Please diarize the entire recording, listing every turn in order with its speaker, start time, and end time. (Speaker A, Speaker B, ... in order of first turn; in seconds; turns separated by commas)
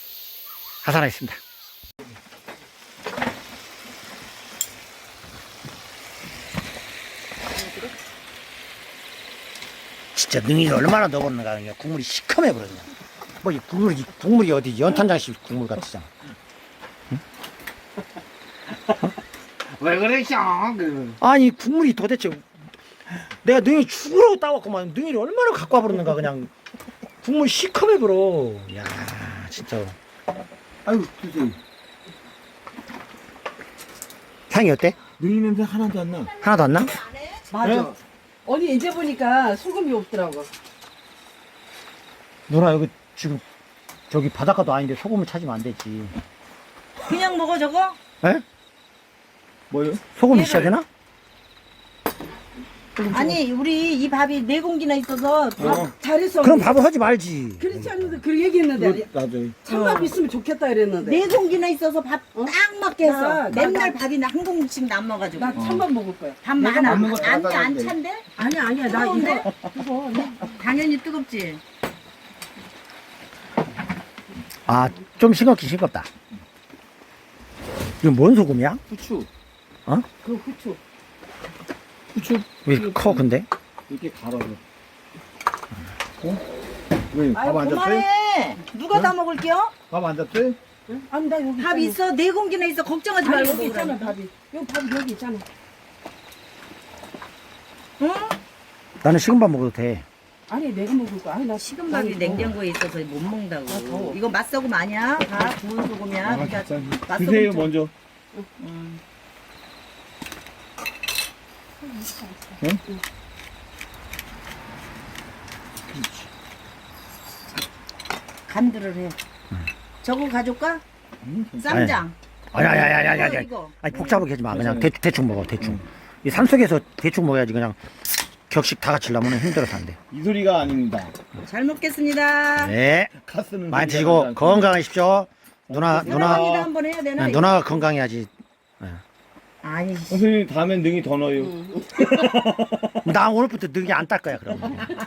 Speaker A: 0.8-1.4, Speaker A: 10.1-12.9, Speaker A: 13.4-16.1, Speaker B: 19.6-21.2, Speaker A: 21.2-22.4, Speaker A: 23.4-26.5, Speaker A: 27.2-30.0, Speaker B: 30.8-31.6, Speaker A: 34.5-35.0, Speaker B: 35.2-36.3, Speaker A: 36.4-37.0, Speaker C: 37.5-40.5, Speaker A: 37.6-37.9, Speaker A: 42.5-43.4, Speaker A: 44.1-46.1, Speaker D: 47.0-48.0, Speaker B: 49.7-50.0, Speaker A: 50.1-50.9, Speaker D: 50.3-50.6, Speaker C: 53.0-53.4, Speaker D: 53.1-55.9, Speaker B: 55.6-55.9, Speaker C: 55.6-56.8, Speaker A: 56.4-57.7, Speaker C: 57.6-59.1, Speaker B: 58.8-59.5, Speaker C: 59.6-61.2, Speaker D: 59.7-60.1, Speaker D: 61.0-65.6, Speaker C: 62.4-64.0, Speaker C: 65.3-67.4, Speaker B: 65.5-65.9, Speaker D: 66.4-68.3, Speaker B: 66.8-68.0, Speaker C: 68.3-70.6, Speaker D: 68.8-69.5, Speaker D: 70.4-71.6, Speaker A: 74.7-76.1, Speaker A: 78.0-78.8, Speaker B: 78.9-79.3, Speaker C: 80.2-80.8, Speaker B: 82.1-83.2, Speaker A: 82.6-83.5, Speaker B: 83.9-84.6, Speaker B: 87.1-88.0, Speaker C: 87.3-87.8, Speaker D: 87.5-89.7, Speaker B: 89.9-90.6, Speaker C: 90.9-92.0, Speaker D: 91.6-94.2, Speaker C: 93.2-95.4, Speaker D: 98.0-98.4, Speaker A: 99.0-100.0, Speaker C: 100.5-102.5, Speaker D: 101.6-107.7, Speaker C: 103.7-104.2, Speaker B: 106.2-107.9, Speaker D: 108.6-109.0, Speaker C: 111.8-113.0, Speaker B: 115.9-116.3, Speaker D: 118.5-119.2, Speaker D: 120.0-120.8, Speaker B: 121.2-122.0, Speaker D: 121.6-123.7, Speaker A: 121.7-127.8, Speaker B: 123.9-124.9, Speaker A: 128.5-130.0, Speaker B: 130.1-131.2, Speaker D: 131.4-132.7, Speaker A: 132.6-133.1, Speaker B: 133.1-134.7, Speaker A: 133.7-136.6, Speaker B: 135.7-136.7, Speaker D: 136.0-137.8, Speaker A: 137.2-139.0, Speaker D: 139.6-140.2, Speaker B: 140.1-143.1, Speaker C: 141.4-141.8, Speaker A: 143.0-144.9